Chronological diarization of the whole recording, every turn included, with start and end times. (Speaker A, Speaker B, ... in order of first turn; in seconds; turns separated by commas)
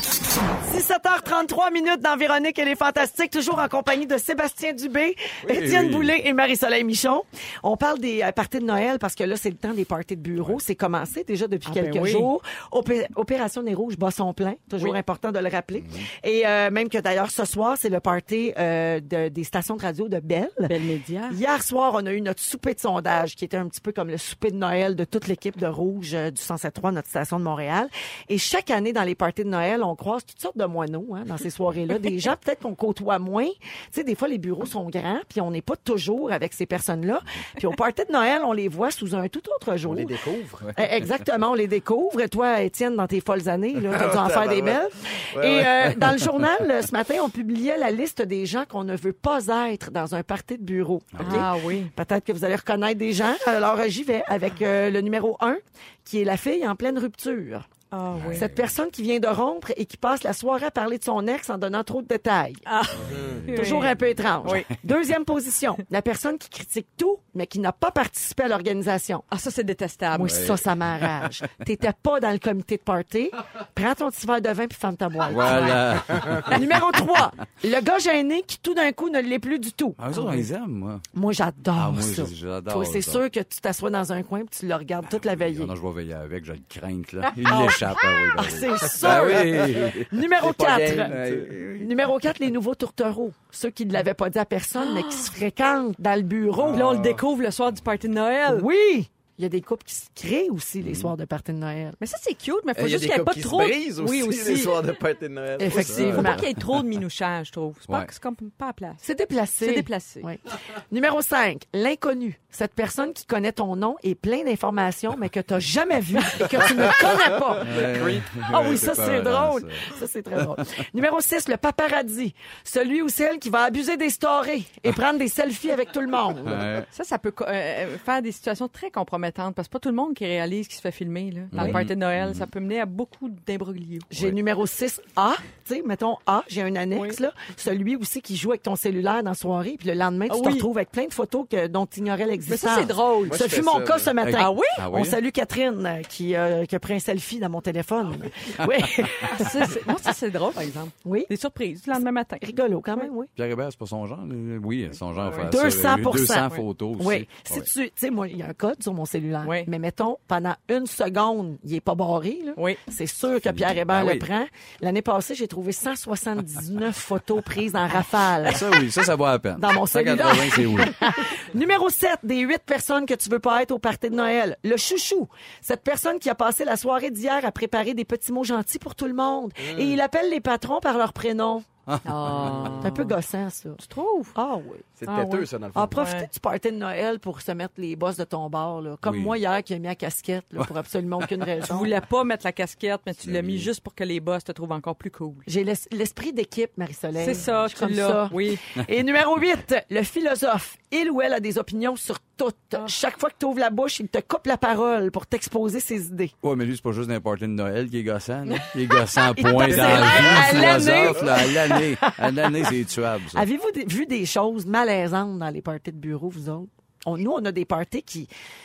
Speaker A: 0.6-20.7, Speaker B: 5.4-6.1, Speaker C: 11.7-12.3, Speaker B: 15.8-16.1, Speaker C: 20.7-21.4, Speaker A: 21.3-40.2, Speaker D: 39.8-40.7, Speaker A: 40.7-57.7, Speaker D: 43.9-44.8, Speaker D: 45.3-46.2, Speaker B: 51.2-51.5, Speaker C: 51.2-51.9, Speaker C: 57.9-58.5, Speaker B: 58.1-58.5, Speaker A: 58.3-62.6, Speaker C: 62.7-64.7, Speaker D: 63.1-63.5, Speaker A: 63.5-69.2, Speaker C: 69.3-70.5, Speaker A: 70.1-80.4, Speaker B: 70.2-71.1, Speaker B: 75.3-76.7, Speaker B: 80.0-81.0, Speaker A: 81.1-85.7, Speaker B: 81.7-83.2, Speaker B: 85.2-90.1, Speaker A: 87.4-91.2, Speaker D: 89.0-91.6, Speaker B: 91.1-91.9, Speaker A: 91.8-96.9, Speaker C: 94.8-95.3, Speaker D: 96.6-97.2, Speaker C: 96.7-98.7, Speaker A: 98.5-102.0, Speaker B: 100.8-101.1, Speaker C: 102.0-104.8, Speaker D: 102.8-106.3, Speaker A: 105.6-106.4, Speaker B: 105.8-106.6, Speaker C: 105.8-109.0, Speaker A: 109.0-117.7, Speaker C: 109.6-110.3, Speaker D: 117.6-118.5, Speaker B: 117.6-119.9, Speaker A: 118.5-126.6, Speaker B: 126.5-126.9, Speaker C: 126.9-134.1, Speaker B: 131.5-132.5, Speaker A: 134.1-149.7, Speaker C: 140.3-140.7, Speaker C: 142.5-143.4, Speaker D: 143.2-144.2, Speaker B: 144.2-145.2, Speaker C: 144.4-144.8, Speaker C: 149.3-152.4, Speaker A: 151.0-151.3, Speaker A: 151.9-153.3, Speaker B: 153.3-157.7, Speaker C: 155.2-155.5, Speaker A: 155.5-168.7, Speaker C: 159.4-159.7, Speaker B: 163.5-164.2, Speaker B: 168.4-171.0, Speaker A: 169.6-181.7, Speaker D: 179.6-180.0, Speaker B: 181.9-182.8, Speaker C: 182.1-183.2, Speaker A: 182.7-183.8, Speaker C: 183.8-184.3, Speaker A: 184.3-184.9, Speaker D: 185.0-186.0, Speaker C: 185.1-186.3, Speaker A: 185.7-191.9, Speaker B: 189.0-189.4, Speaker C: 191.7-195.5, Speaker B: 193.2-193.7, Speaker A: 195.5-206.3, Speaker C: 197.2-198.6, Speaker B: 206.4-213.4, Speaker A: 209.4-212.7, Speaker C: 209.6-210.8, Speaker A: 213.3-218.3